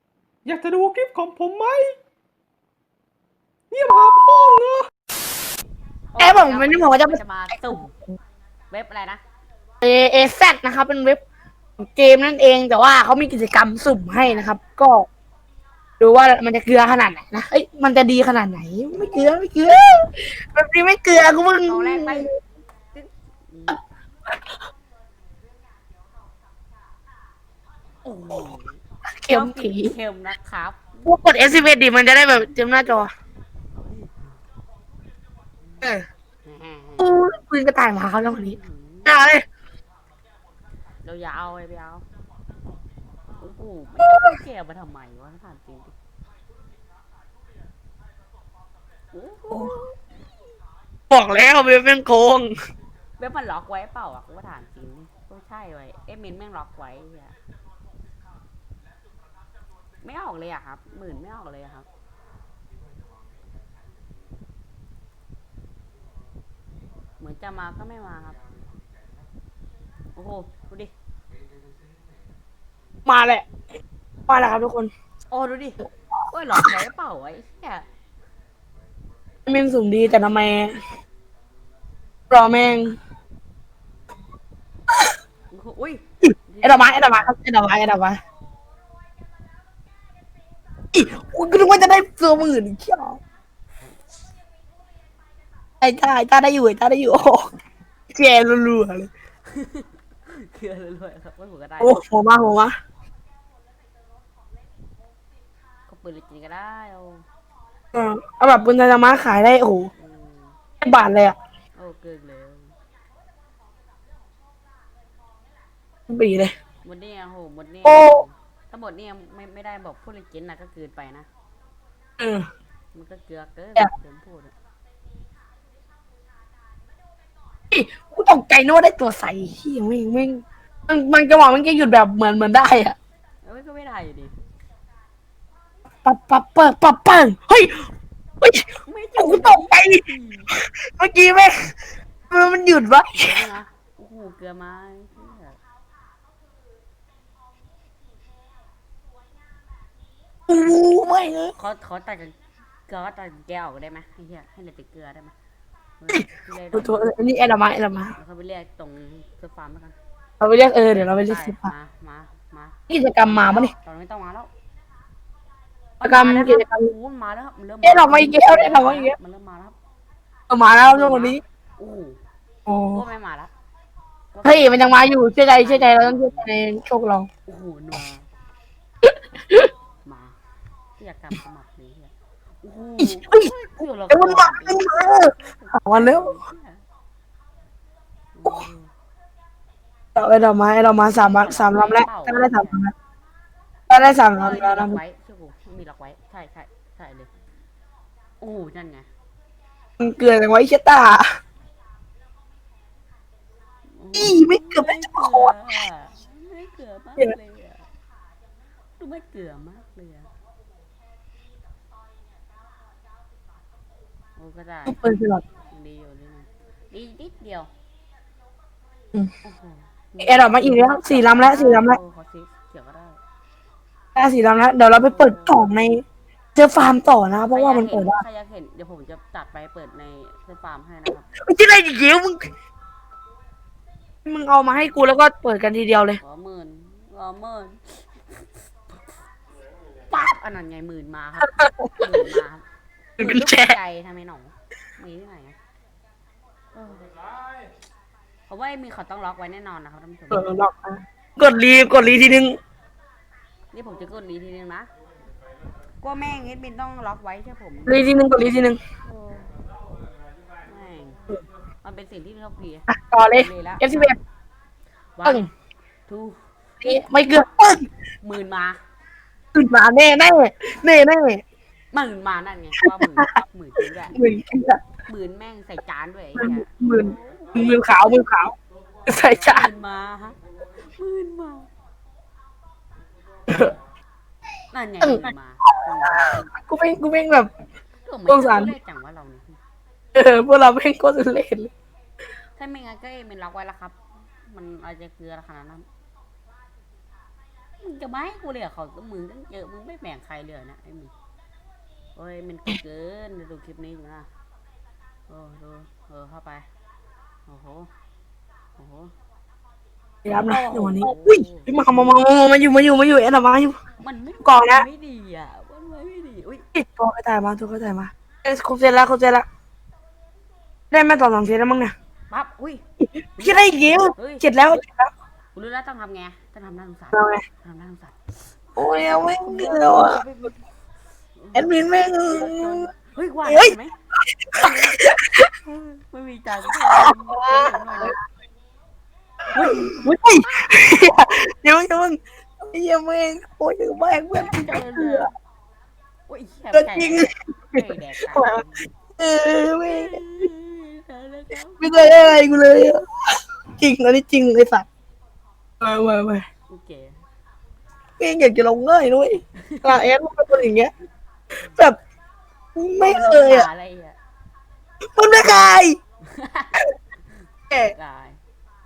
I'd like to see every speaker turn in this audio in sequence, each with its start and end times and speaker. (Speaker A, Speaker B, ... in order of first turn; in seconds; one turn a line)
Speaker A: 0.4-1.9
Speaker A: 3.7-4.9
Speaker B: 6.1-7.9
Speaker C: 6.2-7.8
Speaker B: 8.7-9.2
Speaker C: 9.8-11.2
Speaker C: 11.8-15.1
Speaker C: 16.0-22.3
Speaker B: 21.6-22.3
Speaker B: 22.9-23.8
Speaker B: 28.0-31.4
Speaker C: 29.2-29.9
Speaker C: 31.0-33.1
Speaker B: 33.8-34.1
Speaker B: 36.4-37.2
Speaker C: 37.0-39.4
Speaker B: 38.2-39.2
Speaker B: 41.0-42.0
Speaker B: 43.4-45.9
Speaker C: 44.0-44.3
Speaker B: 49.1-49.9
Speaker C: 51.1-52.5
Speaker B: 53.2-57.3
Speaker B: 60.0-61.9
Speaker B: 67.2-68.4
Speaker B: 70.1-70.9
Speaker C: 73.0-73.4
Speaker C: 74.3-74.9
Speaker B: 75.3-77.8
Speaker C: 79.5-80.8
Speaker C: 82.3-83.0
Speaker B: 85.5-87.4
Speaker C: 86.3-88.2
Speaker C: 90.9-93.2
Speaker B: 91.0-91.4
Speaker C: 95.8-97.4
Speaker C: 98.1-99.1
Speaker B: 99.5-102.0
Speaker C: 101.8-102.7
Speaker B: 105.9-107.2
Speaker C: 107.9-109.9
Speaker B: 110.0-110.6
Speaker C: 110.8-111.3
Speaker B: 111.8-112.7
Speaker C: 116.1-116.5
Speaker B: 116.8-121.3
Speaker C: 117.8-118.2
Speaker C: 122.2-122.4
Speaker B: 122.9-124.5
Speaker C: 127.7-132.9
Speaker B: 133.4-134.3
Speaker C: 136.0-137.8
Speaker B: 138.8-140.5
Speaker C: 139.2-140.0
Speaker C: 140.5-141.8
Speaker C: 142.3-143.5
Speaker B: 143.1-145.6
Speaker C: 150.5-151.5
Speaker B: 151.5-152.3
Speaker B: 152.9-155.3
Speaker B: 156.0-157.2
Speaker C: 156.1-158.1
Speaker B: 158.1-159.9
Speaker C: 160.4-161.7
Speaker B: 160.9-164.5
Speaker C: 162.9-163.7
Speaker B: 166.0-169.7
Speaker C: 166.0-166.9
Speaker C: 167.8-169.2
Speaker C: 170.5-171.4
Speaker B: 170.7-172.2
Speaker C: 172.7-173.0
Speaker B: 172.9-173.5
Speaker B: 174.3-176.5
Speaker C: 174.4-177.3
Speaker B: 177.4-178.2
Speaker C: 179.0-179.7
Speaker B: 180.0-180.3
Speaker B: 181.0-186.8
Speaker C: 183.0-183.5
Speaker C: 184.1-186.3
Speaker B: 188.3-188.9
Speaker C: 190.2-192.9
Speaker B: 191.2-192.8
Speaker C: 193.9-195.0
Speaker B: 194.2-197.3
Speaker B: 198.4-199.1
Speaker C: 200.0-201.2
Speaker B: 203.9-207.8
Speaker C: 204.1-205.5
Speaker B: 209.0-210.3
Speaker B: 214.4-215.1
Speaker C: 214.8-215.4
Speaker B: 215.7-217.7
Speaker B: 219.4-223.2
Speaker C: 220.2-222.0
Speaker C: 224.1-226.0
Speaker B: 224.9-225.6
Speaker C: 226.6-228.2
Speaker B: 227.5-231.3
Speaker C: 231.4-232.5
Speaker C: 234.2-236.2
Speaker B: 234.7-235.0
Speaker B: 236.2-238.9
Speaker B: 240.1-242.6
Speaker C: 241.4-242.3
Speaker C: 243.2-243.8
Speaker B: 243.2-245.6
Speaker B: 246.7-247.0
Speaker B: 248.5-250.5
Speaker C: 250.3-252.6
Speaker B: 253.7-254.9
Speaker B: 256.0-258.1
Speaker C: 257.9-258.8
Speaker B: 259.1-259.5
Speaker B: 260.6-261.2
Speaker B: 261.8-264.1
Speaker C: 262.9-264.1
Speaker B: 265.2-265.5
Speaker B: 266.1-267.0
Speaker C: 266.8-267.8
Speaker B: 268.2-268.8
Speaker C: 269.5-271.4
Speaker B: 271.9-274.2
Speaker C: 272.8-273.3
Speaker C: 274.1-274.8
Speaker B: 275.1-277.8
Speaker C: 276.4-278.5
Speaker C: 279.1-279.7
Speaker B: 279.2-280.4
Speaker B: 280.9-281.7
Speaker C: 283.5-283.7
Speaker B: 284.7-286.5
Speaker C: 285.0-287.5
Speaker B: 288.0-289.6
Speaker C: 288.3-288.7
Speaker C: 290.1-291.7
Speaker B: 292.6-295.8
Speaker B: 297.8-301.1
Speaker B: 302.1-304.3
Speaker B: 305.3-306.6
Speaker B: 307.4-307.9
Speaker B: 308.8-309.1
Speaker C: 310.2-313.8
Speaker B: 310.3-311.8
Speaker B: 314.0-316.6
Speaker C: 314.4-314.8
Speaker C: 316.7-319.4
Speaker C: 320.9-321.9
Speaker B: 322.3-322.8
Speaker B: 323.4-324.4
Speaker C: 323.4-325.1
Speaker B: 325.5-328.2
Speaker C: 327.1-327.4
Speaker B: 328.8-330.6
Speaker C: 328.8-330.2
Speaker B: 331.4-333.9
Speaker C: 331.5-332.9
Speaker C: 333.5-333.7
Speaker C: 334.3-335.5
Speaker B: 334.5-335.1
Speaker B: 335.6-338.2
Speaker C: 336.7-338.1
Speaker B: 339.5-341.0
Speaker C: 339.5-345.3
Speaker B: 344.3-345.3
Speaker B: 346.3-348.9
Speaker C: 346.7-348.6
Speaker C: 349.2-350.2
Speaker B: 349.8-352.3
Speaker C: 351.8-353.0
Speaker C: 353.8-354.8
Speaker C: 355.8-356.4
Speaker B: 356.7-357.2
Speaker C: 358.2-360.9
Speaker B: 359.6-360.0
Speaker C: 362.8-363.7
Speaker B: 363.0-364.2
Speaker C: 365.1-366.0
Speaker B: 366.2-366.8
Speaker B: 367.8-368.4